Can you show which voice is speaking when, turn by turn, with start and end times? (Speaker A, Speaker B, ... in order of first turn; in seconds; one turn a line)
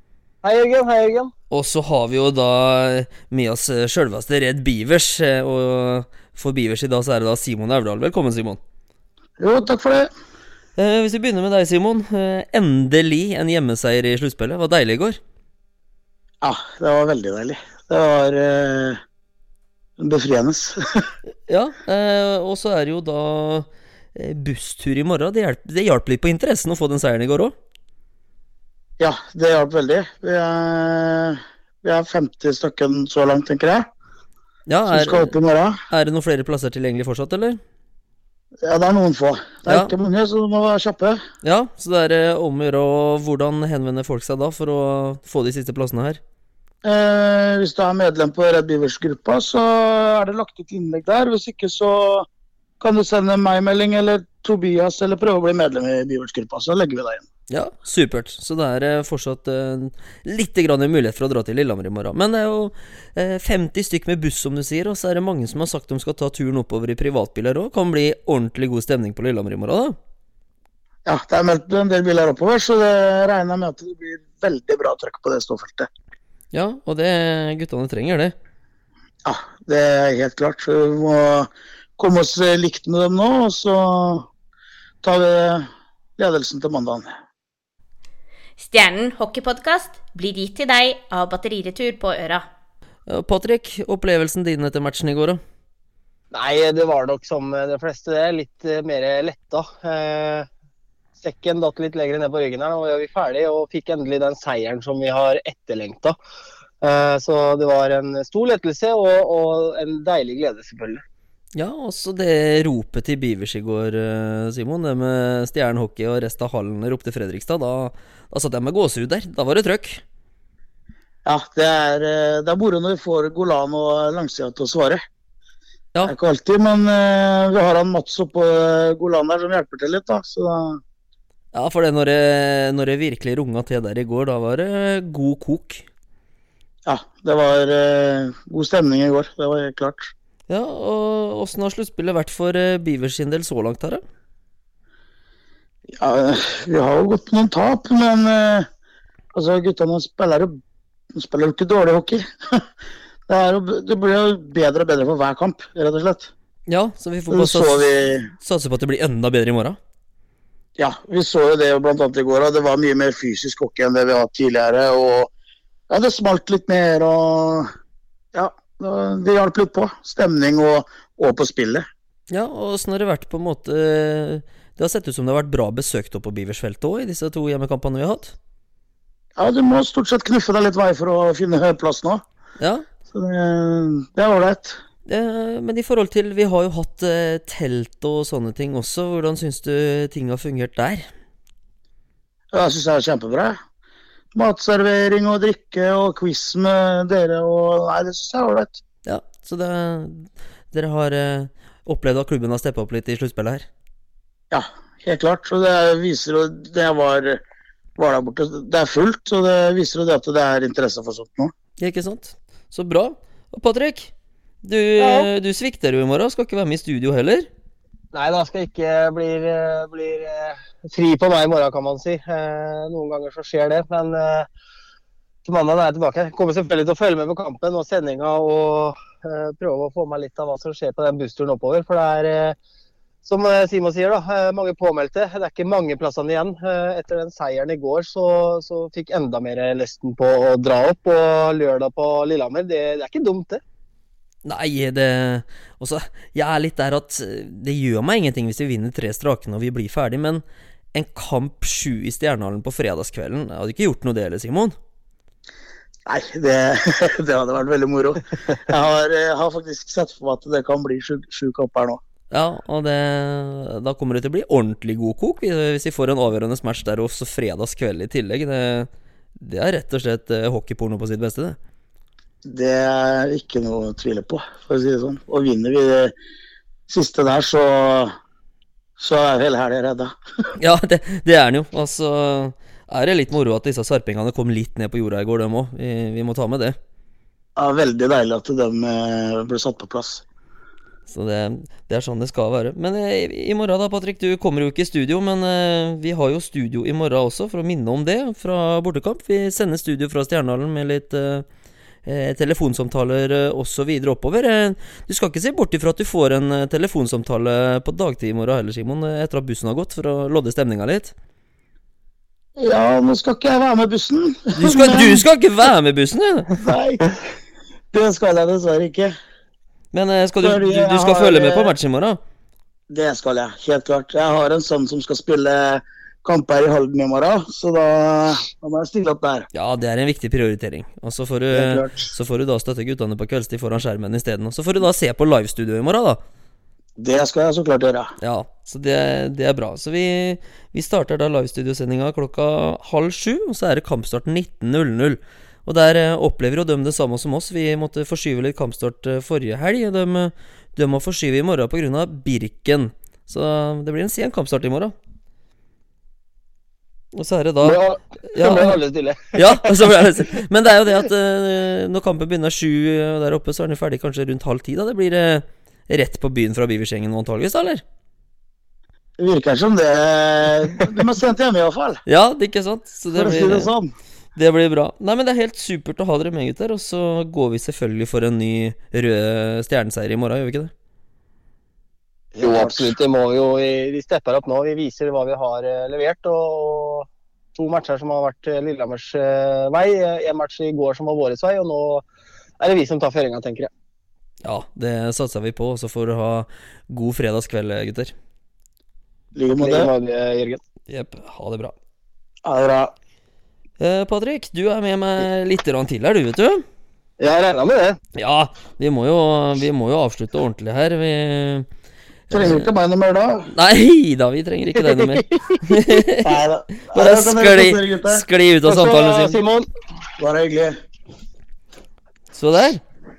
Speaker A: 0.4-1.3
Speaker B: 1.5-8.6
Speaker C: 9.4-10.1
Speaker B: 10.8-15.2
Speaker C: 16.4-19.0
Speaker C: 20.0-21.0
Speaker B: 21.5-27.5
Speaker C: 29.0-33.9
Speaker B: 34.7-35.3
Speaker C: 34.9-35.8
Speaker B: 35.9-37.6
Speaker C: 38.6-41.2
Speaker B: 39.6-39.9
Speaker B: 41.4-46.2
Speaker C: 46.8-52.3
Speaker C: 52.8-57.2
Speaker B: 57.5-69.9
Speaker C: 71.0-75.9
Speaker B: 76.5-78.3
Speaker C: 79.2-84.3
Speaker C: 85.0-85.7
Speaker C: 86.2-87.1
Speaker D: 88.6-92.5
Speaker B: 93.1-95.4
Speaker A: 96.3-100.5
Speaker A: 101.2-106.2
Speaker A: 106.8-111.0
Speaker B: 111.5-120.0
Speaker C: 121.2-125.0
Speaker C: 126.0-130.8
Speaker B: 131.5-135.8
Speaker C: 136.8-140.1
Speaker B: 140.5-144.0
Speaker C: 146.0-148.7
Speaker C: 149.3-150.5
Speaker C: 151.1-152.6
Speaker C: 153.3-156.3
Speaker B: 156.7-159.8
Speaker C: 157.3-158.3
Speaker C: 160.8-165.3
Speaker C: 165.9-167.7
Speaker C: 168.3-171.8
Speaker B: 172.3-178.3
Speaker C: 179.4-182.2
Speaker B: 182.6-182.8
Speaker C: 183.1-184.8
Speaker B: 185.1-191.1
Speaker C: 192.5-193.5
Speaker C: 194.3-198.8
Speaker B: 199.1-203.7
Speaker C: 204.5-207.4
Speaker C: 208.0-211.5
Speaker B: 211.8-214.1
Speaker B: 214.6-217.5
Speaker A: 215.0-215.3
Speaker A: 218.1-224.5
Speaker A: 225.4-232.6
Speaker A: 233.2-243.6
Speaker B: 244.4-250.4
Speaker B: 250.9-254.7
Speaker C: 256.1-262.0
Speaker B: 262.3-271.6
Speaker C: 272.4-276.1
Speaker C: 276.9-278.1
Speaker C: 279.0-280.1
Speaker B: 280.6-286.8
Speaker C: 287.6-290.2
Speaker B: 291.1-301.4
Speaker B: 302.1-311.1
Speaker C: 312.6-315.2
Speaker B: 314.6-316.7
Speaker C: 316.5-317.1
Speaker C: 317.9-319.1
Speaker B: 319.9-322.2
Speaker C: 320.4-321.7
Speaker C: 322.9-329.4
Speaker B: 329.5-336.2
Speaker C: 331.5-332.1
Speaker C: 337.0-338.1
Speaker B: 338.2-354.9
Speaker B: 357.1-358.8
Speaker A: 357.6-359.9
Speaker B: 359.3-367.8
Speaker C: 369.2-372.0
Speaker B: 372.1-373.7
Speaker C: 373.1-373.9
Speaker B: 374.4-380.7
Speaker C: 382.3-383.0
Speaker A: 382.4-392.0
Speaker A: 392.6-393.7
Speaker B: 394.4-398.1
Speaker C: 399.3-399.9
Speaker A: 399.5-400.6
Speaker B: 400.9-401.7
Speaker C: 402.4-402.9
Speaker B: 403.8-406.6
Speaker A: 407.2-408.0
Speaker B: 408.1-411.6
Speaker B: 412.3-412.7
Speaker C: 412.3-413.5
Speaker B: 413.5-416.4
Speaker A: 414.8-415.8
Speaker C: 416.2-418.2
Speaker B: 416.9-419.4
Speaker A: 418.6-419.7
Speaker C: 420.2-420.7
Speaker B: 422.3-422.8